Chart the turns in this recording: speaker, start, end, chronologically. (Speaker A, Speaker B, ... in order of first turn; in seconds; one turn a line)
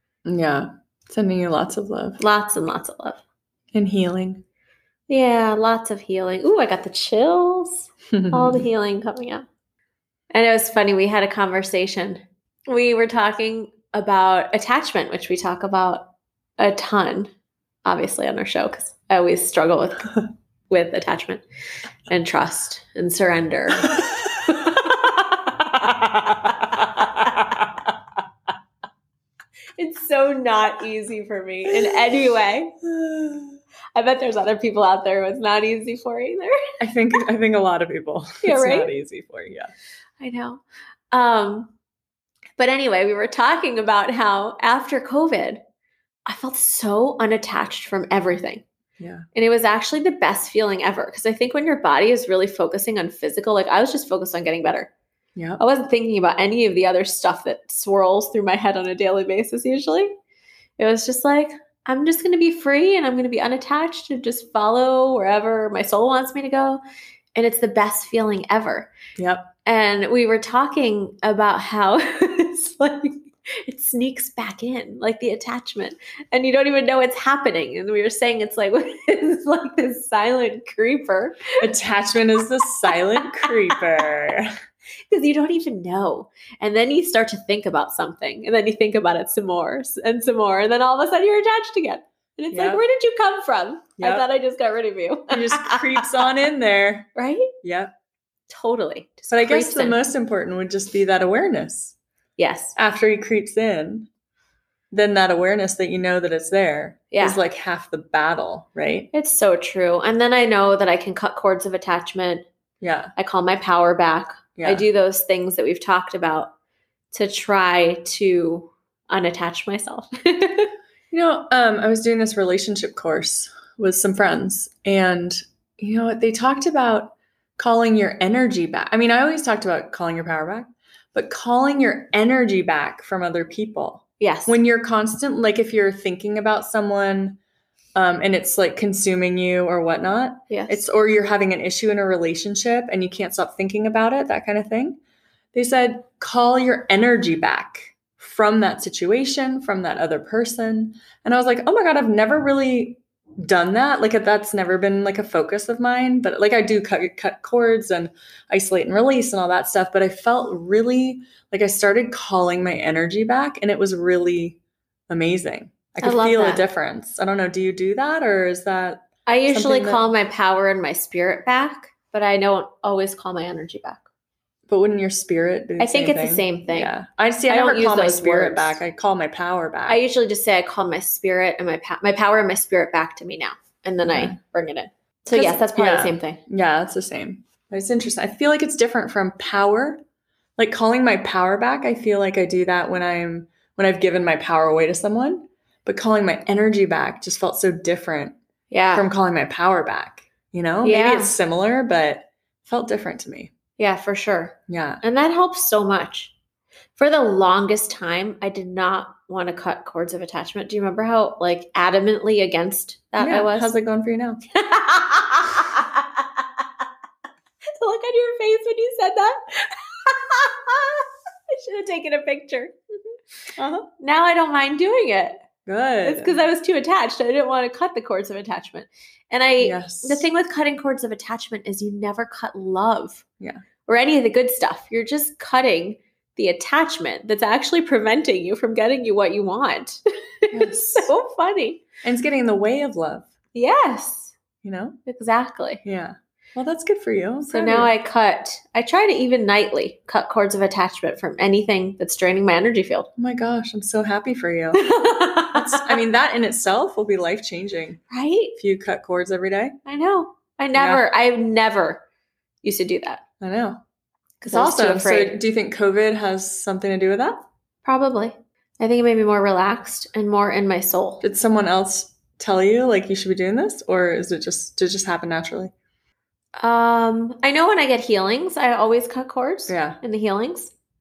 Speaker A: 0.2-2.2
Speaker B: 2.2-3.2
Speaker A: 3.7-4.4
Speaker B: 5.1-9.5
Speaker A: 8.1-8.7
Speaker B: 10.3-17.3
Speaker B: 17.9-21.4
Speaker B: 22.1-25.8
Speaker A: 25.9-26.3
Speaker A: 27.4-27.6
Speaker B: 29.8-32.8
Speaker A: 32.9-33.6
Speaker B: 34.0-36.5
Speaker A: 36.8-39.7
Speaker B: 38.4-38.9
Speaker B: 40.2-41.7
Speaker B: 42.6-45.6
Speaker B: 46.3-48.6
Speaker A: 49.0-49.2
Speaker B: 49.3-54.9
Speaker A: 55.4-55.6
Speaker B: 55.6-60.1
Speaker B: 60.8-66.8
Speaker B: 67.3-68.9
Speaker A: 69.2-69.5
Speaker B: 69.7-81.6
Speaker A: 81.6-84.5
Speaker B: 83.4-83.7
Speaker B: 85.1-96.1
Speaker A: 92.5-92.8
Speaker A: 94.0-94.2
Speaker A: 95.3-97.1
Speaker B: 97.2-97.5
Speaker A: 97.6-97.9
Speaker B: 98.5-100.0
Speaker A: 99.3-102.0
Speaker B: 102.4-102.8
Speaker A: 102.8-104.1
Speaker A: 104.9-109.1
Speaker B: 107.1-107.4
Speaker B: 109.1-112.5
Speaker A: 112.8-113.1
Speaker B: 113.2-116.5
Speaker A: 114.6-114.8
Speaker B: 117.1-120.7
Speaker A: 121.1-137.4
Speaker B: 134.2-134.6
Speaker A: 137.9-145.0
Speaker B: 140.5-140.9
Speaker A: 145.5-164.6
Speaker A: 165.1-170.0
Speaker B: 166.0-166.7
Speaker B: 169.3-174.0
Speaker A: 174.7-180.0
Speaker B: 175.8-176.9
Speaker B: 177.5-178.8
Speaker B: 179.9-186.4
Speaker A: 184.1-184.4
Speaker A: 185.3-190.0
Speaker A: 190.6-198.4
Speaker B: 198.7-199.1
Speaker A: 198.9-203.5
Speaker B: 200.8-201.4
Speaker B: 203.8-206.3
Speaker A: 204.7-205.0
Speaker B: 207.0-213.7
Speaker A: 213.2-214.4
Speaker B: 214.6-216.7
Speaker B: 217.8-222.8
Speaker A: 223.6-223.9
Speaker B: 224.0-225.5
Speaker A: 225.7-226.4
Speaker B: 226.0-233.2
Speaker A: 229.6-230.3
Speaker B: 233.9-241.8
Speaker A: 240.5-241.1
Speaker A: 242.0-243.3
Speaker B: 243.6-244.3
Speaker A: 244.6-245.0
Speaker B: 245.1-245.8
Speaker A: 245.8-247.9
Speaker B: 247.4-253.1
Speaker A: 253.2-254.9
Speaker B: 254.7-255.9
Speaker A: 255.5-258.0
Speaker B: 258.1-258.6
Speaker A: 258.6-259.8
Speaker B: 259.9-262.0
Speaker A: 260.7-261.0
Speaker B: 262.6-263.2
Speaker A: 263.4-263.8
Speaker B: 264.4-265.4
Speaker A: 264.5-267.5
Speaker B: 267.8-271.2
Speaker A: 271.2-275.7
Speaker B: 276.6-280.7
Speaker A: 279.7-280.0